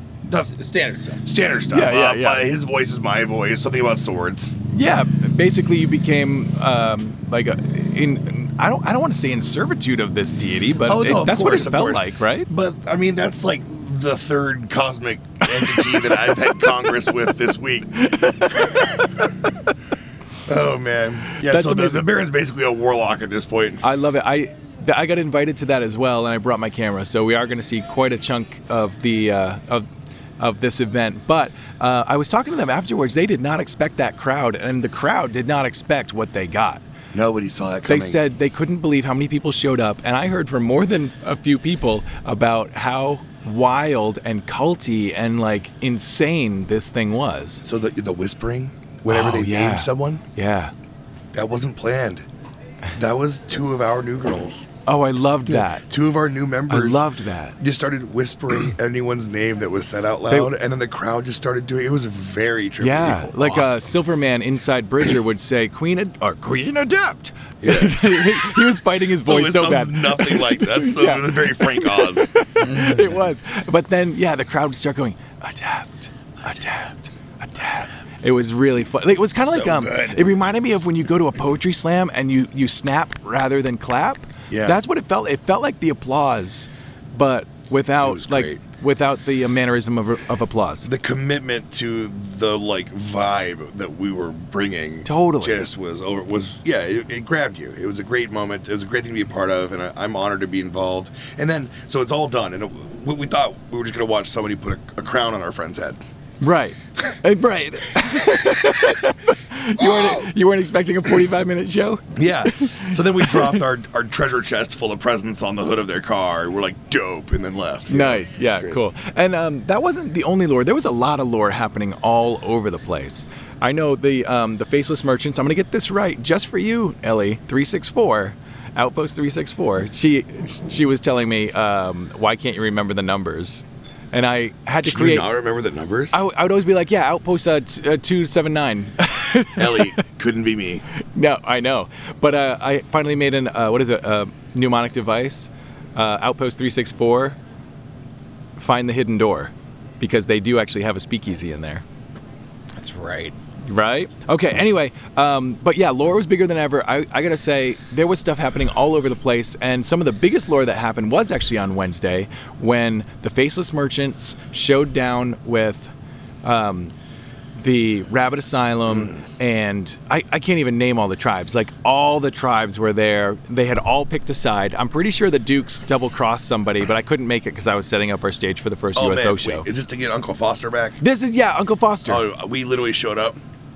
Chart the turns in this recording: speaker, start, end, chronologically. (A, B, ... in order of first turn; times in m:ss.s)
0:00.2-0:00.5 A
0:00.4-0:01.3 B
0:01.2-0:04.6 A
0:01.7-0:02.5 C
0:04.7-0:12.5 C
0:10.8-0:18.7 A
0:18.0-0:18.5 C
0:20.5-0:23.8 A
0:21.4-0:22.1 C
0:23.8-0:29.9 C
0:30.4-0:36.8 C
0:37.1-0:38.2 A
0:37.9-0:47.6 C
0:47.6-0:50.2 A
0:49.1-0:50.7 C
0:51.3-0:52.2 A
0:52.9-0:54.7 A
0:54.9-0:55.9 C
0:55.5-0:57.1 A
0:56.7-0:57.6 C
0:57.6-1:03.5 A
1:02.8-1:30.9 C
1:07.6-1:08.7 A
1:09.2-1:12.3 A
1:12.6-1:13.2 B
1:19.3-1:20.3 A
1:24.5-1:24.8 A
1:28.0-1:28.6 A
1:30.8-1:46.0 A
1:35.0-1:35.6 C
1:46.4-1:53.6 C
1:49.8-1:50.2 A
1:52.2-1:58.8 A
1:57.9-2:15.3 C
2:14.8-2:16.2 A
2:16.1-2:19.9 C
2:19.6-2:20.8 A
2:21.1-2:27.4 C
2:28.6-2:31.8 C
2:32.8-2:33.4 B
2:33.6-2:45.9 C
2:46.4-2:46.9 C
2:47.6-2:59.7 C
2:48.9-2:49.2 A
2:59.0-3:01.0 A
3:01.0-3:02.2 C
3:02.1-3:03.4 A